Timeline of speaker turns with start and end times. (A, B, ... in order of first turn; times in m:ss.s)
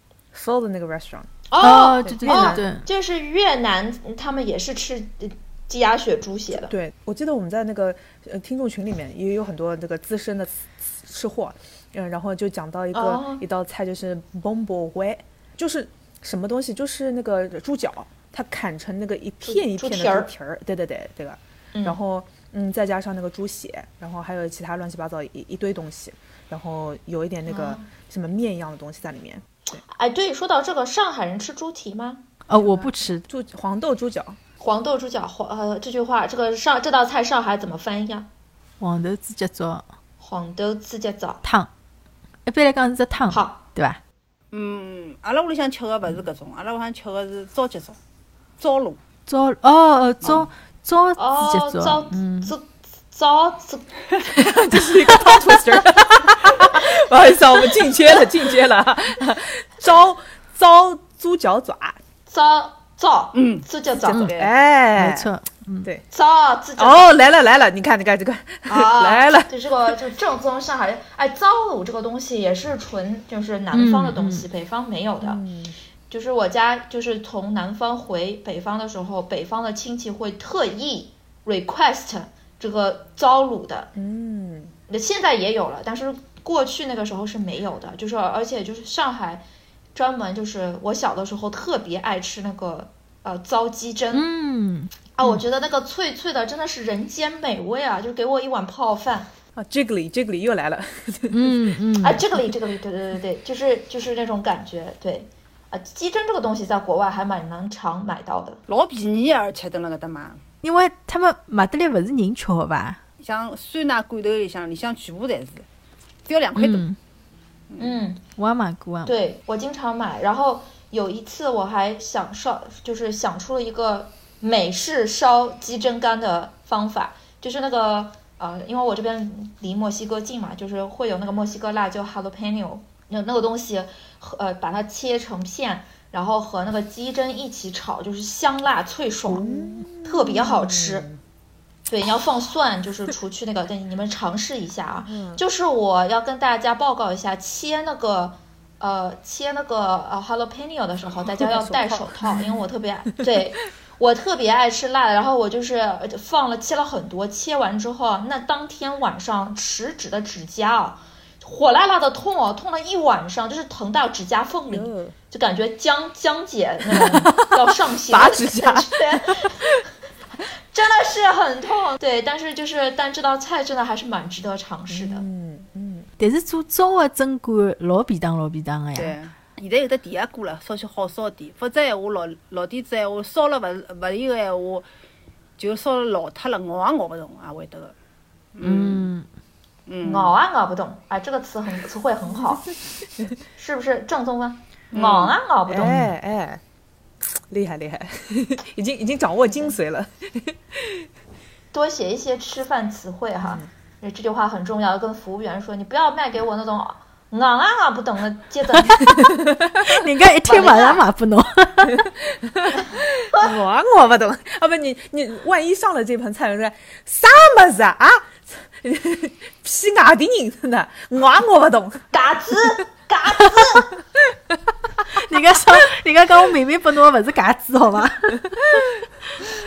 0:00.3-0:01.3 A
0:01.5-0:06.7 B
0:01.6-0:02.8 C
0:02.0-0:02.6 A
0:06.5-0:29.8 A
0:12.9-0:13.4 B
0:19.4-0:20.3 B
0:21.7-0:22.0 B
0:27.4-0:27.8 B
0:29.8-0:32.2 B
0:32.5-0:33.2 C
0:32.5-0:34.4 A
0:34.6-0:38.3 B
0:38.8-0:39.8 C
0:40.2-0:41.4 B
0:41.4-0:41.7 C
0:42.4-0:44.0 C
0:43.3-0:43.6 B
0:44.5-0:48.0 D
0:48.6-0:49.0 D
0:49.3-0:52.5 C
0:51.2-0:53.9 B
0:54.2-1:02.0 A
1:02.3-1:04.3 B
1:03.3-1:03.6 D
1:04.0-1:05.3 A
1:04.0-1:04.3 C
1:04.2-1:04.5 D
1:04.9-1:05.9 C
1:06.1-1:07.1 B
1:06.8-1:09.5 A
1:08.7-1:15.4 B
1:13.7-1:14.5 C
1:15.2-1:15.7 A
1:16.1-1:23.9 B
1:23.9-1:24.7 A
1:24.9-1:29.4 B
1:29.9-1:34.2 B
1:34.1-1:35.4 C
1:35.2-1:39.3 B
1:39.6-1:41.7 A
1:41.3-1:42.3 C
1:42.0-1:48.6 B
1:48.7-1:50.4 D
1:50.6-1:53.0 C
1:53.2-1:55.6 D
1:56.2-1:56.8 D
1:56.5-1:57.0 C
1:57.7-1:58.0 D
1:57.8-1:58.2 B
1:58.4-1:59.1 C
1:59.0-2:21.1 B
2:19.2-2:21.2 A
2:21.9-2:49.6 B
2:25.0-2:25.4 A
2:31.4-2:32.4 A
2:31.4-2:31.9 D
2:44.7-2:45.1 A
2:46.9-2:49.6 A
2:50.7-2:55.2 B
2:54.9-2:56.1 A
2:56.2-2:59.2 C
2:58.9-3:04.8 D
3:05.6-3:07.9 D
3:08.5-3:09.1 D
3:08.6-3:09.2 C
3:09.9-3:10.3 D
3:10.0-3:12.7 B
3:13.5-3:16.1 B
3:14.9-3:15.4 D
3:15.7-3:16.6 A
3:17.5-3:21.1 A
3:21.7-3:29.0 B
3:23.4-3:23.7 A
3:28.9-3:32.1 C
3:30.4-3:31.0 B
3:32.0-3:42.1 A
3:42.1-3:43.9 B
3:45.1-3:48.7 C